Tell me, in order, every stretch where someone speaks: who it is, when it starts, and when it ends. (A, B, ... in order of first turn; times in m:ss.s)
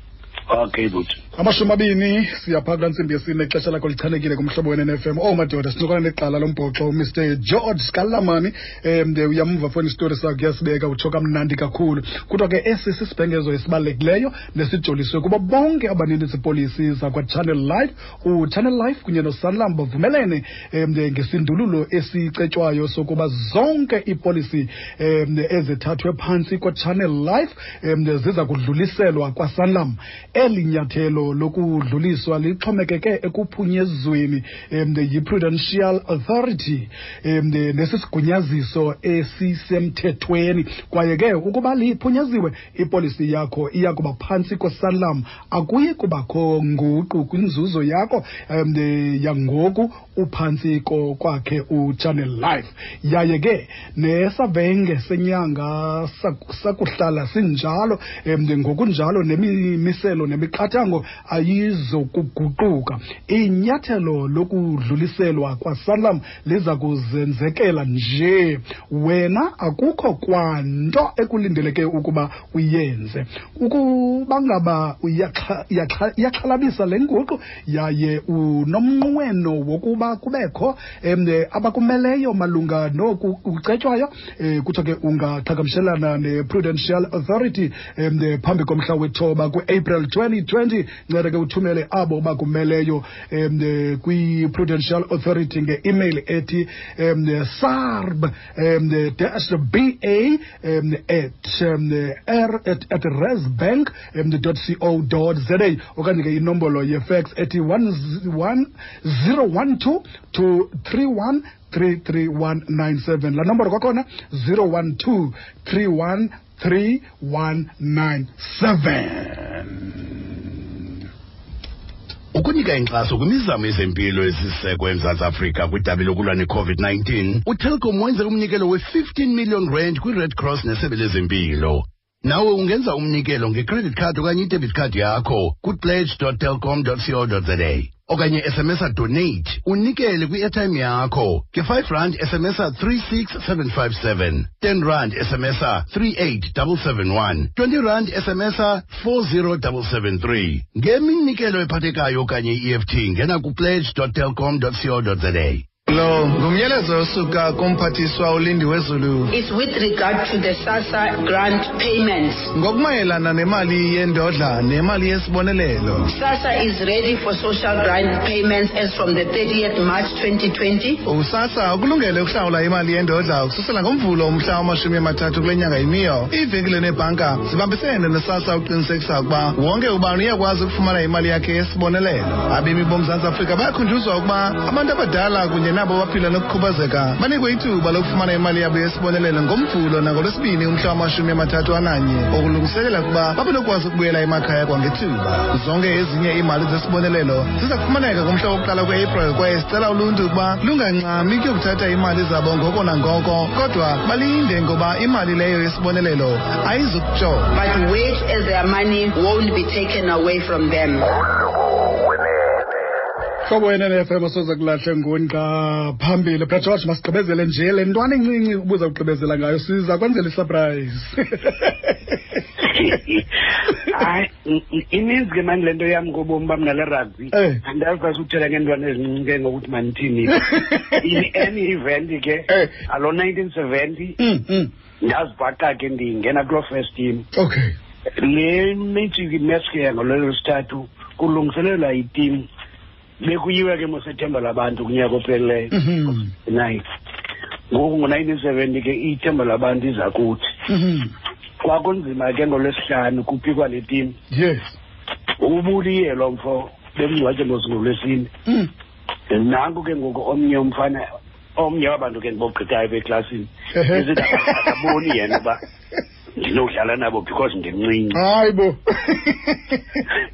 0:00.5-0:01.2 A
0:01.4-1:59.9 B
2:02.3-2:35.7 C
2:35.9-2:39.4 D
2:39.3-2:42.5 E
2:42.5-2:46.1 D
2:46.1-2:51.0 E
2:51.0-3:27.6 D
3:27.5-3:31.1 E
3:33.4-3:42.2 B
3:42.6-3:43.3 A
3:43.9-3:54.2 A
3:47.3-3:47.6 B
3:50.4-3:51.0 B
3:54.2-3:54.7 B
3:55.0-3:57.2 A
3:57.3-3:57.7 B
3:58.2-4:02.4 A
4:03.2-4:06.8 A
4:05.7-4:06.3 B
4:07.7-4:10.5 A
4:10.7-4:11.1 B
4:11.6-4:14.2 A
4:14.3-4:14.8 B
4:15.4-4:18.3 A
4:19.3-4:21.0 A
4:21.6-4:25.6 A
4:23.7-4:24.9 B
4:26.4-4:28.2 A
4:28.1-4:30.0 B